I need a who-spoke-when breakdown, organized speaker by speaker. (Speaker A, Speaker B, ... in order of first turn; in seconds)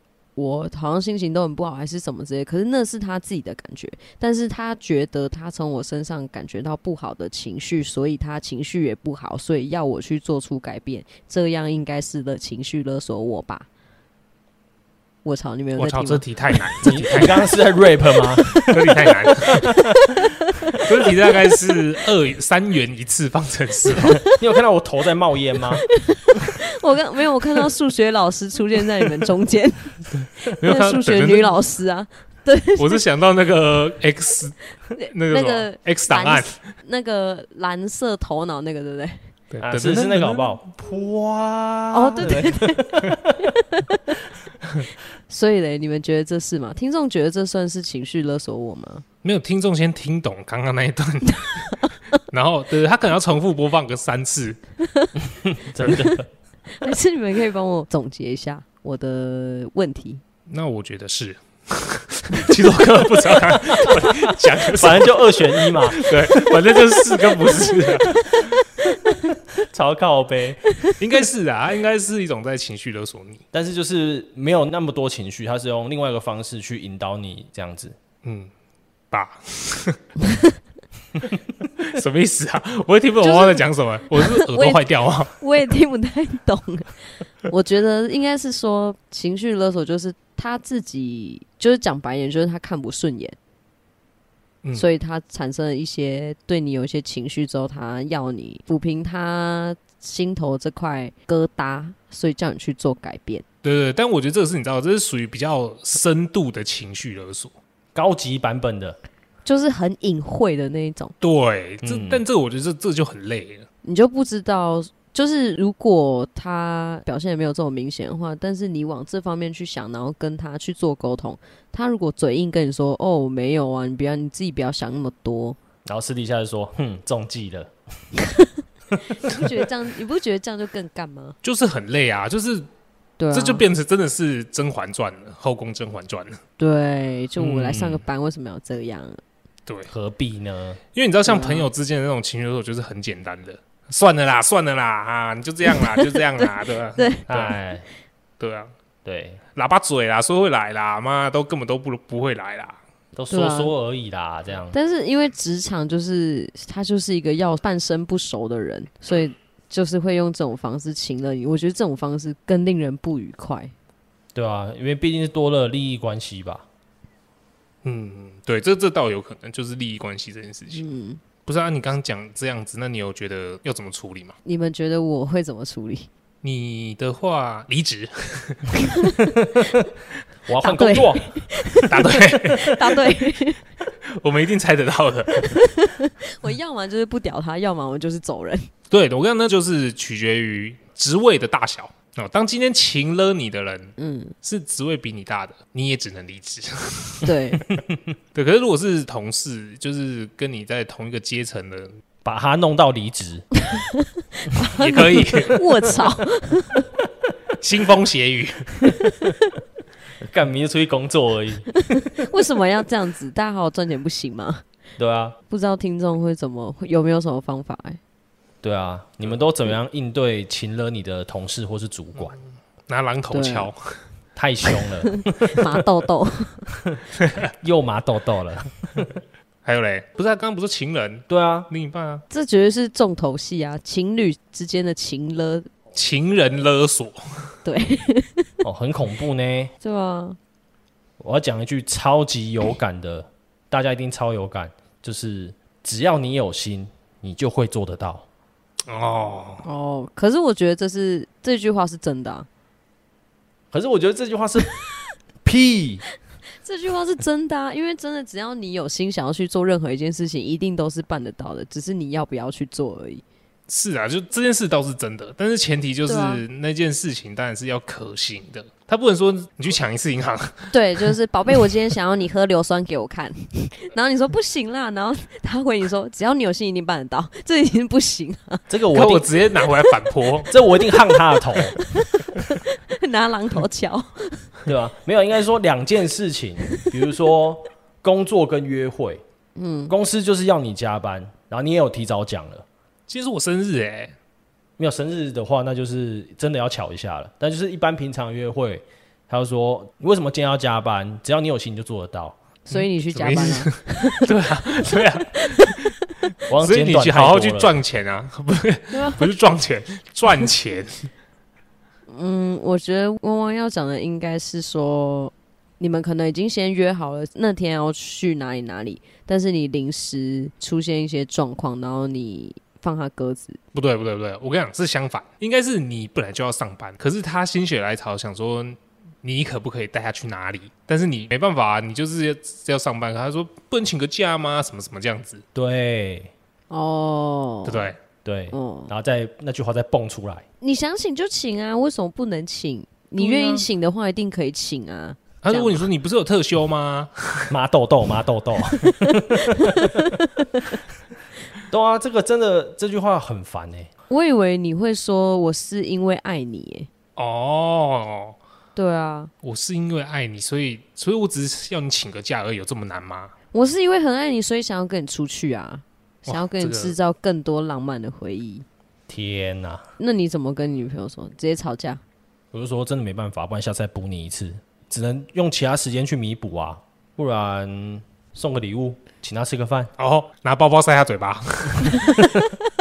Speaker A: 0.3-13.7, 15.2-17.2, 18.4-21.5, 24.0-24.4, 26.0-33.0, 35.0-39.3, 41.9-44.0, 45.3-49.0, 51.4-51.8, 54.8-55.1, 55.8-56.2, 56.7-60.2, 68.8-69.1, 83.2-93.3, 94.7-103.4, 109.4-111.1, 113.8-125.6, 129.1-131.3, 133.2-133.6, 136.6-139.2, 141.2-141.7, 145.7-147.3, 153.3-153.7, 154.7-163.7, 170.7-171.2, 174.4-176.1, 178.8-179.8, 180.6-183.6, 185.4-188.7, 194.0-194.3, 197.2-197.6, 203.6-206.9, 208.8-209.3, 211.9-214.6, 215.5-218.0, 223.3-223.7, 225.0-226.7, 232.3-235.7, 237.6-238.5, 239.8-240.4, 249.6-252.5, 256.6-263.2, 266.1-266.4, 270.7-278.6, 281.0-284.5, 289.6-289.9, 302.7-304.3, 305.4-305.7, 308.9-309.2, 312.1-323.6, 336.7-337.9, 338.5-338.9, 340.6-345.9, 348.8-350.8, 354.1-356.9, 358.8-359.3, 363.5-368.6, 370.0-372.0
Speaker B: 15.8-17.5, 18.6-19.7, 20.8-24.2, 30.2-31.6, 32.8-36.6, 39.5-40.5, 49.2-54.6, 60.5-68.5, 71.0-73.4, 78.2-78.5, 79.1-80.0, 81.8-85.3, 103.6-107.5, 111.2-113.7, 131.4-132.7, 133.3-136.4, 137.4-138.0, 139.7-139.9, 140.9-147.5, 148.4-148.7, 149.6-152.8, 167.8-170.8, 171.4-174.4, 176.4-178.7, 181.9-182.7, 184.1-185.6, 188.9-197.3, 198.3-201.9, 204.8-205.6, 207.6-208.8, 222.2-224.0, 227.2-227.5, 229.6-232.2, 235.9-237.6, 248.9-249.6, 263.7-271.1, 278.9-280.5, 293.1-294.1, 302.7-305.9, 306.6-311.1, 323.7-335.4, 337.6-338.0, 343.2-343.6, 345.4-347.5, 357.2-358.4, 359.4-363.3, 366.3-366.9, 380.0-382.2
Speaker C: 16.8-20.0, 24.2-25.9, 39.6-43.4, 55.4-56.3, 63.8-66.2, 69.6-70.7, 73.5-78.0, 107.9-109.0, 111.8-112.2, 125.8-127.7, 139.9-140.8, 147.3-147.8, 149.0-149.4, 153.1-154.8, 164.3-166.6, 180.4-181.3, 202.2-203.5, 210.2-211.7, 215.0-215.4, 218.6-222.3, 224.3-225.6, 227.6-229.1, 231.3-231.7, 238.6-239.7, 241.2-248.2, 253.7-254.8, 255.4-256.0, 278.7-279.3, 280.5-281.8, 284.7-289.2, 289.9-292.6, 294.8-302.4, 306.5-307.7, 335.5-336.3, 338.2-340.4, 347.5-350.1, 351.7-353.9, 369.1-369.9, 372.5-379.9